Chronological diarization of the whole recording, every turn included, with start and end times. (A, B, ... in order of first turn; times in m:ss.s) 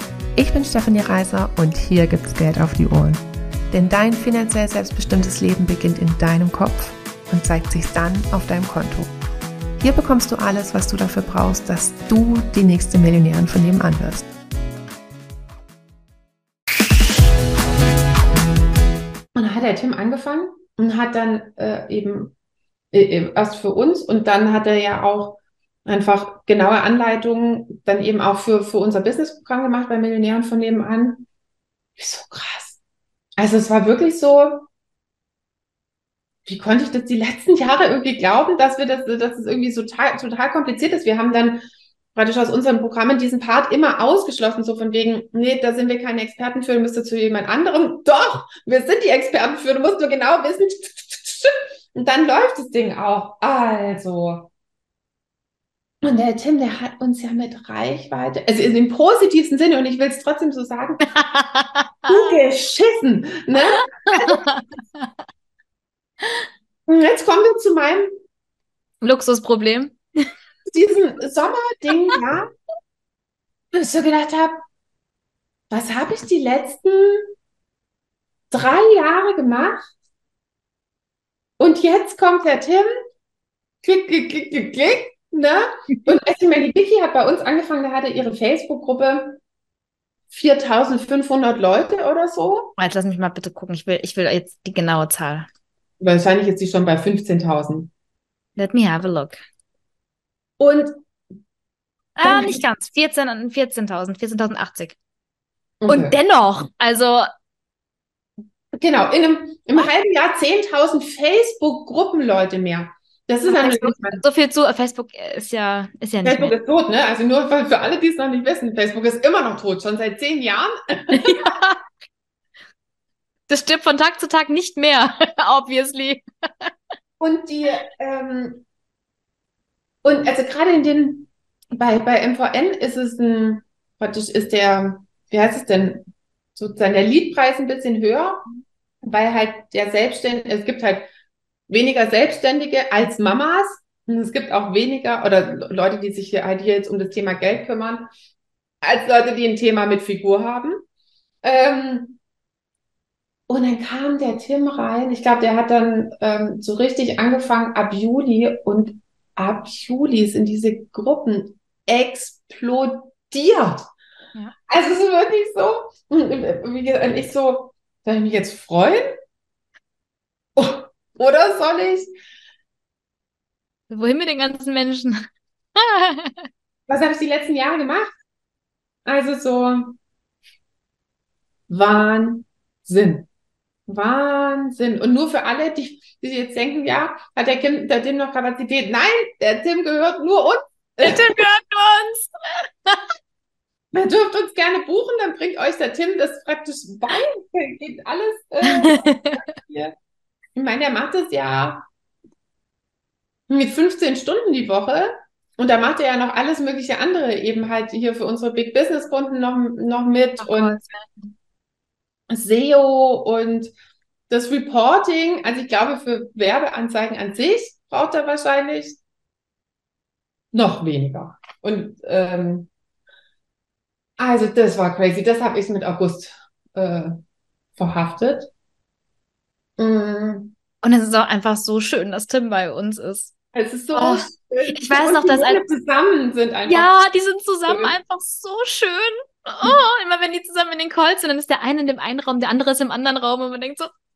0:00.4-0:09.1 A
0:09.8-0:14.3 A
0:19.4-0:22.3 B
0:22.9-0:31.2 B
0:32.0-0:32.8 B
0:33.4-0:34.7 B
0:36.4-0:41.6 B
0:42.1-0:54.5 B
0:56.0-1:01.1 B
1:01.1-1:02.4 C
1:02.1-1:04.4 B
1:04.1-1:05.1 C
1:06.9-1:08.1 B
1:09.0-1:10.0 C
1:10.7-1:12.5 B
1:13.7-1:14.6 B
1:15.7-1:17.3 B
1:18.5-1:19.9 B
1:21.6-1:22.9 B
1:23.8-1:29.4 B
1:30.3-1:32.8 B
1:32.8-1:35.5 C
1:36.0-1:37.9 B
1:38.6-1:39.4 C
1:40.6-1:41.0 B
1:42.2-1:45.0 C
1:42.2-1:42.6 B
1:45.8-1:46.2 B
1:45.9-1:47.3 C
1:48.7-1:54.2 B
1:53.5-1:56.5 C
1:56.2-2:01.3 B
2:01.1-2:01.8 C
2:03.5-2:06.7 C
2:07.2-2:08.6 B
2:10.0-2:18.4 B
2:19.0-2:21.1 B
2:21.7-2:28.1 B
2:28.8-2:30.8 B
2:31.4-2:32.2 B
2:33.5-2:43.8 B
2:44.7-2:49.2 B
2:50.6-2:52.1 B
2:53.9-2:55.2 C
2:55.8-2:56.5 C
2:56.9-2:58.2 B
2:59.1-3:00.0 B
3:01.7-3:03.3 B
3:03.9-3:11.3 B
3:11.0-3:13.0 C
3:13.9-3:19.9 B
3:18.7-3:19.4 C
3:20.5-3:21.8 B
3:23.5-3:30.8 B
3:30.4-3:31.3 C
3:32.3-3:33.7 B
3:34.3-3:39.0 B
3:40.5-3:42.7 B
3:44.2-3:47.2 B
3:47.8-3:48.5 B
3:49.8-3:50.5 B
3:50.8-3:53.3 C
3:53.5-3:56.9 B
3:53.9-3:55.6 C
3:56.7-4:03.9 C
3:57.7-3:58.0 B